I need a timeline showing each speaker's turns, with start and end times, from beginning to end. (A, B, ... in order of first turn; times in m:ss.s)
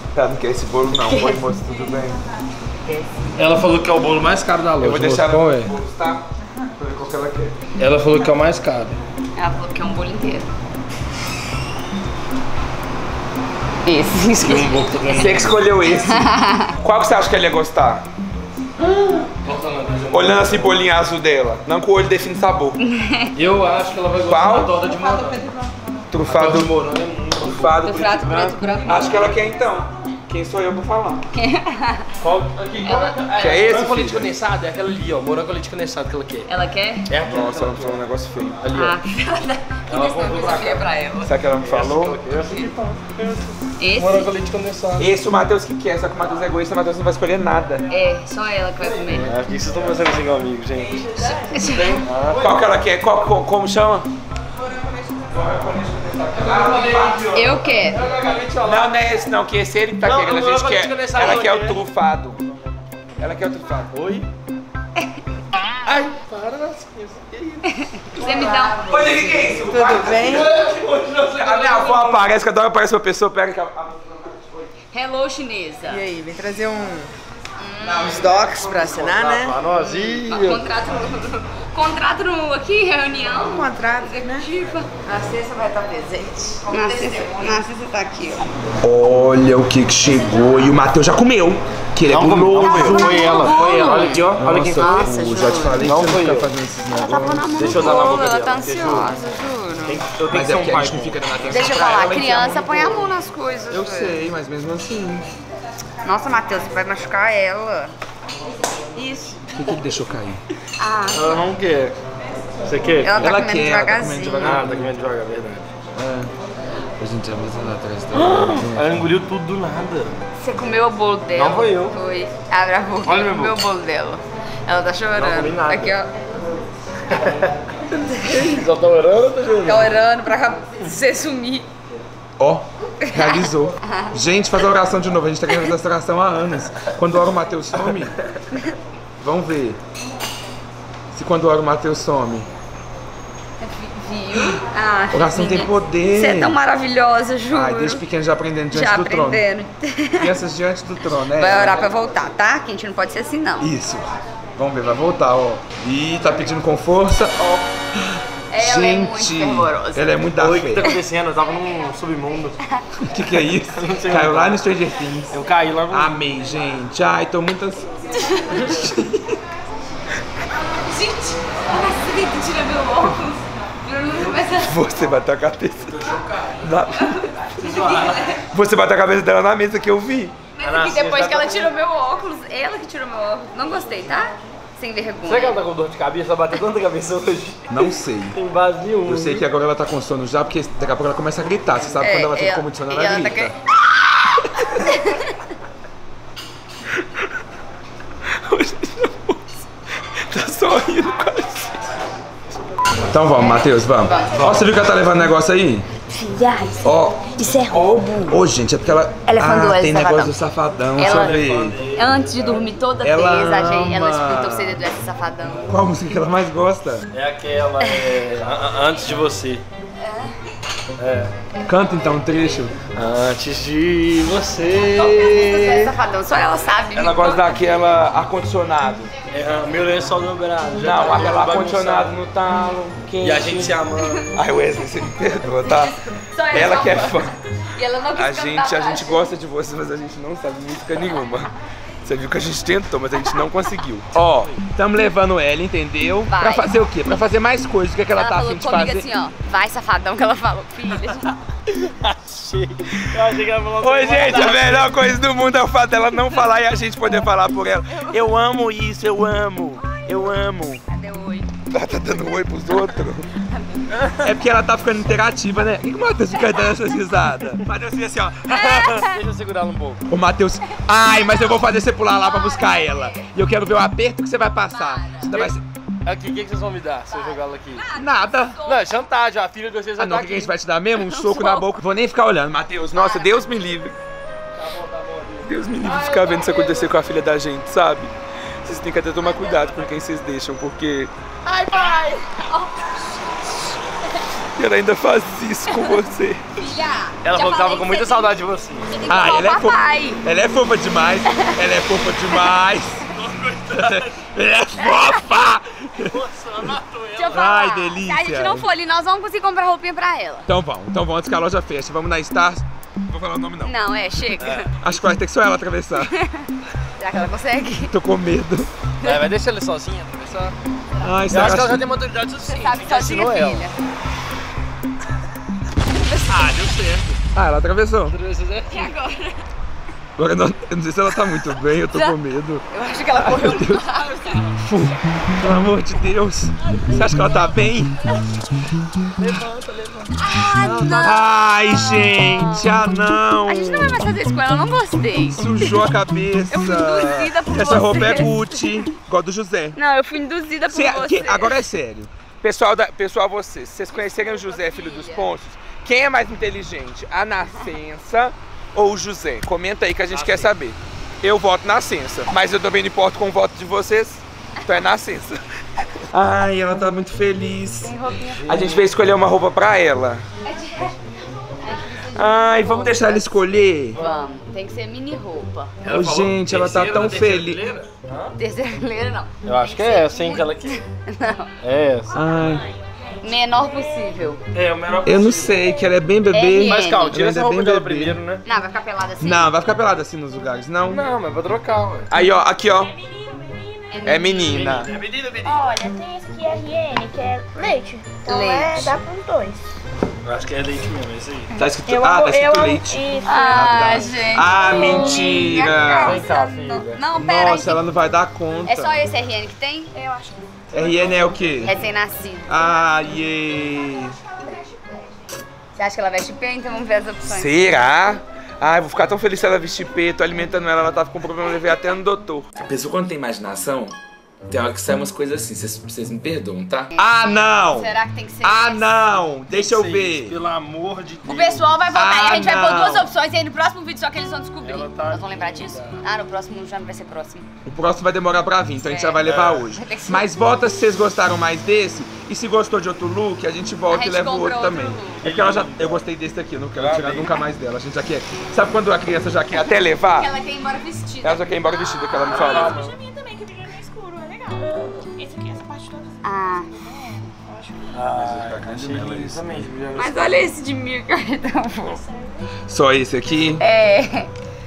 0:00.1-0:02.2 A
0:01.1-0:01.4 B
0:02.8-0:03.2 B
0:03.4-0:05.7 C
0:04.8-0:06.2 A
0:06.8-0:07.6 A
0:07.8-0:09.0 C
0:09.3-0:10.5 B
0:13.8-0:15.4 B
0:14.4-0:15.5 C
0:15.1-0:18.1 A
0:16.0-0:16.7 B
0:18.8-0:20.8 C
0:20.1-0:22.8 A
0:22.8-0:23.3 B
0:23.3-0:25.4 C
0:24.2-0:24.7 A
0:26.1-0:26.7 A
0:26.2-0:27.8 C
0:27.4-0:31.2 A
0:27.8-0:29.3 B
0:31.3-0:32.1 B
0:32.2-0:36.5 C
0:32.8-0:33.1 B
0:33.3-0:34.3 A
0:36.5-0:37.1 B
0:37.1-0:38.0 C
0:37.2-0:38.6 A
0:38.6-0:39.0 C
0:38.7-0:41.3 B
0:39.8-0:40.9 C
0:41.2-0:42.2 A
0:41.6-0:45.1 C
0:43.8-0:44.3 B
0:45.0-0:47.9 A
0:47.9-0:49.3 B
0:49.0-0:52.6 C
0:51.5-0:52.0 B
0:51.7-0:54.1 A
0:55.1-0:57.5 A
0:56.5-0:57.4 C
0:57.3-0:58.0 B
0:57.9-0:59.0 C
0:58.6-1:02.4 A
1:00.0-1:01.8 C
1:03.2-1:03.9 A
1:03.9-1:04.3 C
1:05.8-1:07.7 C
1:07.6-1:09.3 B
1:08.2-1:14.4 A
1:08.2-1:08.6 C
1:09.6-1:10.6 D
1:09.9-1:12.1 C
1:14.9-1:16.0 B
1:15.8-1:17.1 D
1:17.6-1:18.3 B
1:17.8-1:19.2 A
1:18.2-1:19.6 D
1:18.8-1:20.7 C
1:19.7-1:24.9 B
1:23.5-1:24.5 D
1:25.0-1:26.6 E
1:25.1-1:26.4 D
1:26.6-1:28.5 B
1:28.8-1:33.1 A
1:32.1-1:35.1 C
1:32.6-1:35.8 B
1:34.4-1:37.5 A
1:35.8-1:36.5 C
1:37.0-1:40.0 B
1:37.5-1:39.1 C
1:39.8-1:41.4 C
1:40.3-1:43.1 A
1:41.5-1:44.2 B
1:43.7-1:45.2 A
1:46.0-1:47.9 B
1:49.0-1:49.4 B
1:49.5-1:50.4 A
1:50.8-1:51.5 B
1:51.1-1:52.0 C
1:52.6-1:53.2 C
1:53.0-1:54.6 B
1:53.2-1:54.9 A
1:54.4-1:55.7 C
1:55.9-1:56.3 A
1:57.0-1:59.0 A
1:58.1-2:00.2 C
2:00.4-2:06.1 B
2:01.3-2:02.0 C
2:03.0-2:03.6 C
2:05.1-2:06.0 C
2:07.1-2:07.5 C
2:07.9-2:08.6 B
2:08.2-2:10.0 C
2:09.6-2:11.7 B
2:12.4-2:18.1 A
2:13.0-2:14.1 B
2:19.2-2:19.8 A
2:21.1-2:22.5 A
2:23.6-2:28.0 B
2:25.1-2:26.6 A
2:27.5-2:29.4 A
2:28.7-2:30.3 B
2:30.2-2:31.9 A
2:31.2-2:33.7 B
2:33.6-2:37.6 A
2:38.5-2:40.1 B
2:38.6-2:40.9 A
2:40.4-2:42.6 C
2:43.0-2:45.4 A
2:43.7-2:44.6 C
2:45.3-2:46.2 C
2:45.9-2:47.9 A
2:48.2-2:48.6 B
2:48.5-2:49.3 A
2:50.8-2:54.8 B
2:54.5-2:56.0 A
2:55.9-2:56.6 C
2:56.6-2:57.3 A
2:57.0-2:58.4 B
2:57.6-2:58.3 C
2:58.5-3:00.4 A
3:00.6-3:05.6 B
3:00.6-3:01.7 C
3:05.2-3:09.4 C
3:07.7-3:08.4 A
3:09.0-3:13.5 A
3:12.0-3:13.5 B
3:14.5-3:14.8 A
3:14.8-3:15.3 B
3:18.4-3:19.6 A
3:20.2-3:21.8 A
3:23.1-3:25.9 A
3:23.4-3:24.5 B
3:26.1-3:28.4 B
3:26.8-3:31.8 A
3:29.3-3:30.3 B
3:31.0-3:31.3 B
3:31.0-3:32.7 C
3:31.9-3:35.7 B
3:33.0-3:34.8 A
3:35.5-3:35.7 C
3:35.7-3:37.1 A
3:37.1-3:39.6 C
3:40.0-3:40.3 B
3:41.0-3:41.3 C
3:41.6-3:42.8 A
3:42.9-3:45.8 C
3:45.0-3:47.6 B
3:46.9-3:49.1 A
3:49.3-3:52.1 C
3:50.7-3:53.8 A
3:53.2-3:54.3 C
3:54.3-3:56.0 A
3:55.6-3:59.2 B
3:56.5-3:57.3 A
3:58.1-4:09.1 A
4:06.3-4:06.7 B
4:08.1-4:11.4 B
4:11.7-4:14.9 C
4:13.8-4:20.8 A
4:19.8-4:20.3 B
4:20.9-4:21.5 B
4:21.7-4:23.3 A
4:23.4-4:24.0 B
4:24.0-4:24.2 C
4:24.2-4:28.9 A
4:28.5-4:29.2 B
4:28.5-4:30.0 C
4:30.1-4:35.6 A
4:30.7-4:33.3 B
4:34.7-4:35.5 B
4:36.0-4:37.8 C
4:37.1-4:39.0 B
4:37.9-4:38.6 A
4:38.6-4:40.5 C
4:40.0-4:43.9 A
4:41.0-4:41.7 B
4:42.9-4:43.6 B
4:44.5-4:46.9 C
4:45.4-4:51.1 A
4:49.2-4:49.7 B
4:51.5-4:53.8 B
4:51.5-4:52.2 C
4:54.6-4:56.7 A
4:55.7-4:56.0 B
4:56.6-5:00.2 B
4:57.2-4:58.9 C
4:59.1-5:03.1 A
5:01.3-5:01.6 B
5:03.1-5:04.2 C
5:03.7-5:06.2 A
5:04.8-5:05.3 B
5:06.0-5:07.6 C
5:07.2-5:10.5 B
5:07.3-5:08.7 A
5:10.5-5:13.8 A
5:13.6-5:14.7 B
5:14.4-5:14.7 C
5:14.8-5:16.1 A
5:16.0-5:16.4 B
5:17.0-5:17.9 B
5:17.9-5:18.7 A
5:19.0-5:20.5 C
5:21.0-5:21.9 A
5:21.3-5:23.6 C
5:22.5-5:23.8 B
5:25.8-5:26.6 B
5:26.3-5:27.2 C
5:27.3-5:28.2 A
5:28.1-5:28.9 C
5:28.7-5:29.4 B
5:30.2-5:32.6 A
5:32.7-5:34.6 B
5:33.2-5:33.8 A
5:34.6-5:38.0 A
5:36.7-5:37.3 B
5:39.2-5:40.2 C
5:40.2-5:42.8 B
5:40.9-5:44.0 A
5:43.4-5:45.8 B
5:45.3-5:49.8 A
5:46.5-5:48.4 B
5:49.8-5:51.6 B
5:50.7-6:05.4 A
5:53.9-5:55.3 B
6:00.1-6:00.5 C
6:06.0-6:10.2 A
6:07.8-6:08.5 B
6:08.3-6:08.9 C
6:10.4-6:11.0 B
6:11.5-6:15.8 B
6:12.1-6:14.0 A
6:15.8-6:18.3 C
6:15.8-6:17.6 A
6:18.4-6:21.5 B
6:19.4-6:20.8 C
6:21.6-6:22.2 C
6:22.1-6:22.7 A
6:23.2-6:24.4 B
6:24.5-6:25.6 C
6:25.0-6:28.2 A
6:26.3-6:27.1 B
6:26.6-6:28.4 C
6:28.4-6:29.5 B
6:29.2-6:31.0 A
6:30.8-6:32.1 C
6:32.1-6:32.9 A
6:33.9-6:34.9 B
6:34.0-6:34.9 A
6:34.5-6:35.8 C
6:35.4-6:39.6 E
6:37.6-6:39.0 B
6:40.2-6:41.5 C
6:41.5-6:46.2 A
6:41.9-6:45.5 E
6:43.2-6:47.8 B
6:45.7-6:47.0 C
6:47.2-6:49.0 A
6:48.6-6:50.0 B
6:49.9-6:50.4 E
6:50.7-6:51.5 C
6:50.7-6:51.7 A
6:51.6-6:52.6 B
6:52.5-6:54.2 A
6:55.7-6:57.5 B
6:57.2-7:03.9 A
7:04.5-7:10.4 A
7:06.9-7:09.0 B
7:09.5-7:11.7 C
7:11.2-7:17.5 B
7:11.9-7:13.1 A
7:14.6-7:16.0 C
7:17.6-7:30.3 A
7:18.8-7:20.3 B
7:19.2-7:19.7 C
7:23.9-7:25.2 B
7:25.2-7:26.0 C
7:26.8-7:27.4 C
7:30.1-7:32.8 B
7:31.2-7:32.8 A
7:32.3-7:33.0 C
7:32.9-7:36.2 E
7:36.2-7:36.8 B
7:36.8-7:37.8 E
7:37.9-7:40.4 C
7:38.0-7:39.6 A
7:39.9-7:42.0 B
7:42.7-7:43.6 A
7:43.6-7:44.3 B